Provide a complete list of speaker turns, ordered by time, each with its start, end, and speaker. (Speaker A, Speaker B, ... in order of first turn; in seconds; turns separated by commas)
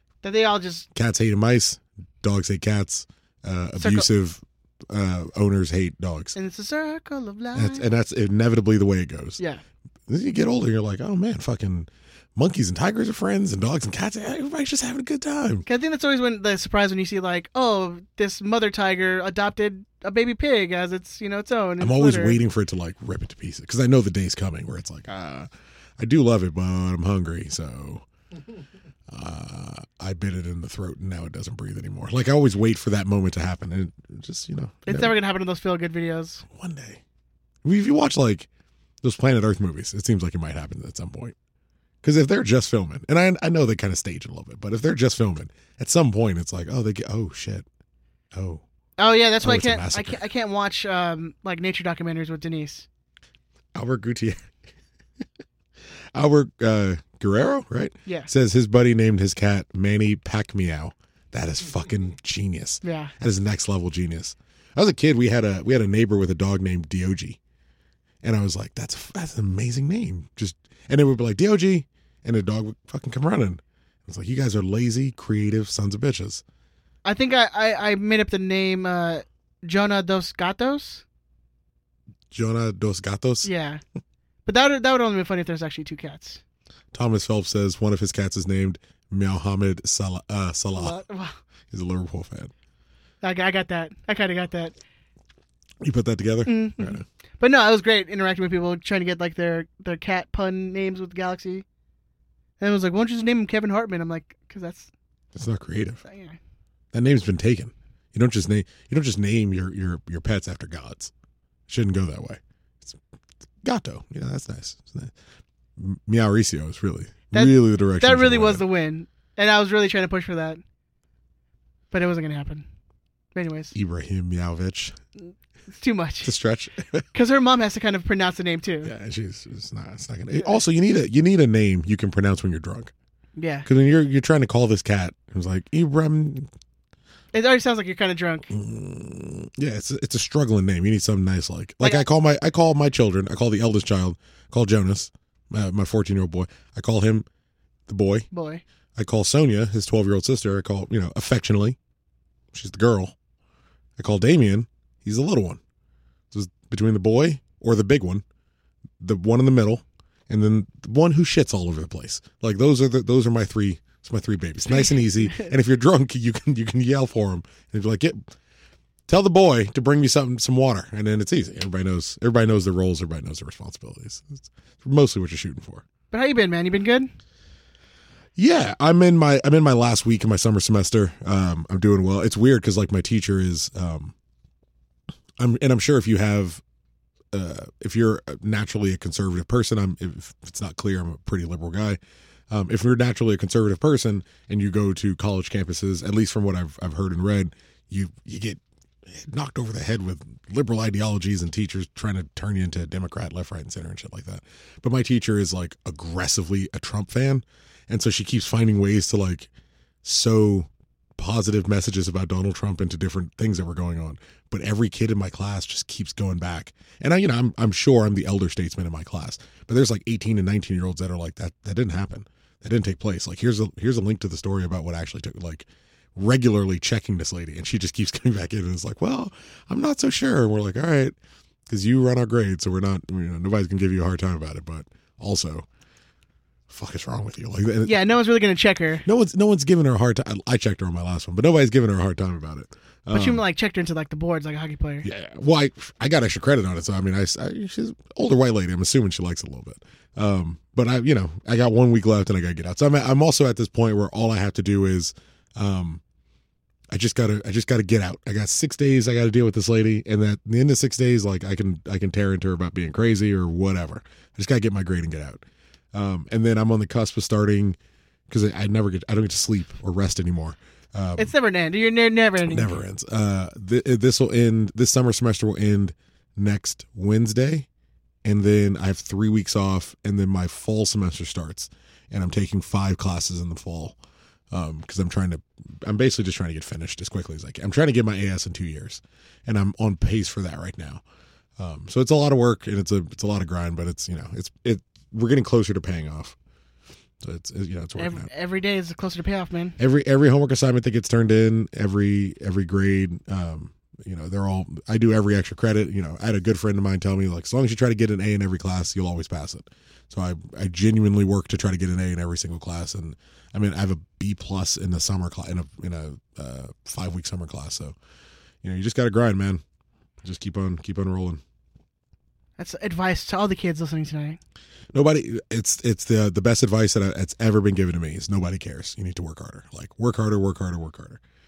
Speaker A: 0.2-0.9, Speaker B: 0.9-6.4, Speaker A: 3.8-4.1, Speaker A: 6.3-7.9, Speaker B: 7.5-9.4, Speaker B: 10.1-15.7, Speaker A: 15.7-22.4, Speaker B: 21.8-28.1, Speaker B: 29.1-35.2, Speaker A: 34.9-36.4, Speaker B: 36.5-37.0, Speaker B: 37.6-38.5, Speaker B: 39.0-41.4, Speaker B: 42.0-47.7, Speaker B: 48.3-48.6, Speaker A: 49.0-52.9, Speaker B: 49.4-50.2, Speaker B: 53.8-54.5, Speaker B: 56.1-67.4, Speaker A: 62.8-63.1, Speaker B: 68.2-76.4, Speaker A: 77.0-81.0, Speaker B: 82.3-83.5, Speaker A: 83.4-83.8, Speaker A: 84.5-86.4, Speaker B: 86.9-91.0, Speaker A: 90.8-91.4, Speaker B: 91.7-92.5, Speaker A: 93.2-94.8, Speaker B: 95.8-97.0, Speaker A: 96.5-101.7, Speaker A: 102.6-104.9, Speaker B: 105.3-106.0, Speaker A: 106.0-106.4, Speaker B: 106.9-111.1, Speaker B: 111.7-113.0, Speaker B: 113.6-115.1, Speaker B: 115.8-118.6, Speaker A: 117.3-120.6, Speaker A: 121.9-122.7, Speaker A: 123.3-123.7, Speaker B: 123.7-125.0, Speaker A: 125.7-126.3, Speaker B: 126.2-127.0, Speaker A: 127.1-128.9, Speaker B: 128.8-132.9, Speaker A: 133.4-133.7, Speaker B: 133.7-136.5, Speaker A: 137.3-138.5, Speaker B: 138.5-147.3, Speaker A: 141.8-142.1, Speaker B: 147.9-148.3, Speaker A: 148.3-148.6, Speaker B: 149.0-151.8, Speaker B: 152.5-153.2, Speaker B: 154.0-155.6, Speaker B: 156.3-158.2, Speaker B: 159.0-168.2, Speaker A: 164.7-165.5, Speaker B: 169.1-175.8, Speaker A: 176.1-177.1, Speaker B: 178.4-184.1, Speaker B: 185.4-186.6, Speaker B: 187.3-192.0, Speaker B: 192.5-209.5, Speaker B: 210.0-231.2, Speaker B: 231.7-235.7, Speaker B: 236.7-238.1, Speaker A: 237.8-239.1, Speaker B: 239.1-243.4, Speaker A: 243.1-245.1, Speaker B: 245.0-256.0, Speaker B: 256.9-267.8, Speaker B: 268.3-271.3, Speaker A: 271.2-272.8, Speaker B: 272.5-277.7, Speaker B: 278.2-284.0, Speaker B: 284.5-291.0, Speaker B: 291.6-296.4, Speaker B: 297.2-298.3, Speaker A: 298.0-299.8, Speaker B: 299.8-317.9, Speaker B: 318.6-319.6, Speaker B: 320.2-321.4, Speaker A: 322.6-324.4, Speaker B: 324.9-331.2